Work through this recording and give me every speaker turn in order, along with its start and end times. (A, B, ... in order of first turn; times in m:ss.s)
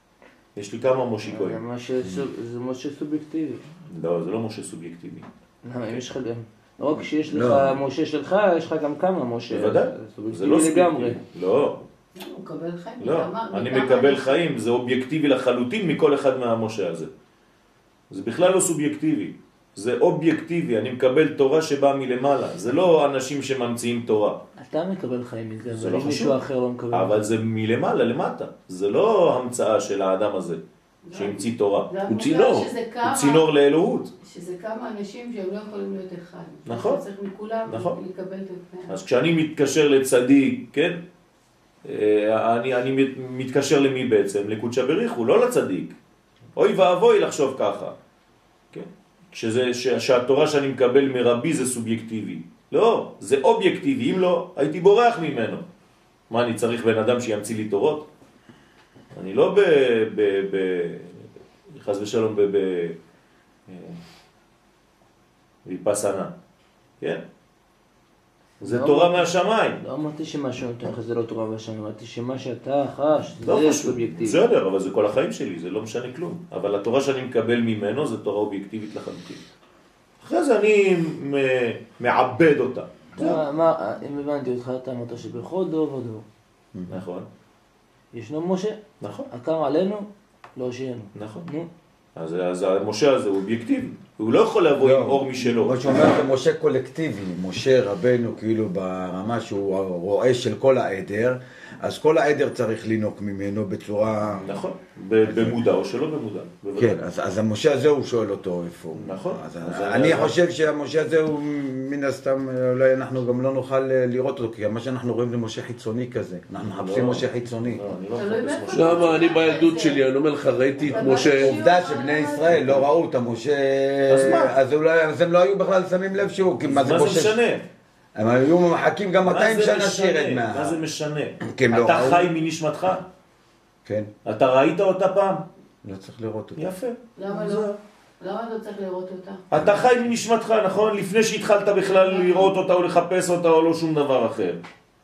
0:00.6-0:01.6 A
0:01.2-0:03.6 B
0:03.9-0:05.3 A
0:05.6-0:11.2 B
0:07.3-0:07.8 C
0:09.5-0:11.8 A
0:12.2-0:14.5 D
0:13.0-0:17.1 A
0:18.1-0:24.4 A
0:24.6-0:27.2 B
0:25.7-0:26.4 A
0:26.9-0:30.6 A
0:31.0-0:33.5 D
0:31.1-0:31.9 A
0:32.0-0:32.8 E
0:33.0-0:34.1 A
0:34.2-0:38.9 D
0:36.6-0:37.0 A
0:37.6-0:38.0 A
0:38.9-0:41.0 A
0:41.8-0:46.0 A
0:46.6-0:47.9 A
0:48.7-0:55.6 A
0:56.3-0:58.1 A
0:59.1-1:03.0 A
1:03.7-1:04.0 A
1:05.6-1:06.3 A
1:08.6-1:09.8 A
1:08.6-1:14.4 B
1:13.4-1:19.5 A
1:20.2-1:23.4 A
1:23.2-1:26.2 B
1:26.9-1:27.3 A
1:28.1-1:28.8 B
1:29.0-1:29.3 A
1:29.3-1:31.7 B
1:31.1-1:31.5 A
1:32.2-1:35.8 A
1:34.8-1:44.6 C
1:44.4-1:47.0 A
1:45.2-1:45.6 C
1:46.8-1:57.8 C
1:48.9-1:50.4 A
1:56.8-1:59.4 A
1:58.1-2:00.1 D
1:58.7-2:01.6 E
2:00.8-2:02.8 D
2:01.0-2:07.4 C
2:04.1-2:04.5 A
2:06.6-2:07.6 A
2:08.1-2:10.8 C
2:09.2-2:13.0 A
2:11.4-2:12.3 C
2:13.8-2:14.1 C
2:14.2-2:15.4 A
2:15.8-2:16.7 C
2:16.6-2:17.8 A
2:17.2-2:19.4 D
2:19.5-2:24.6 A
2:21.9-2:22.5 D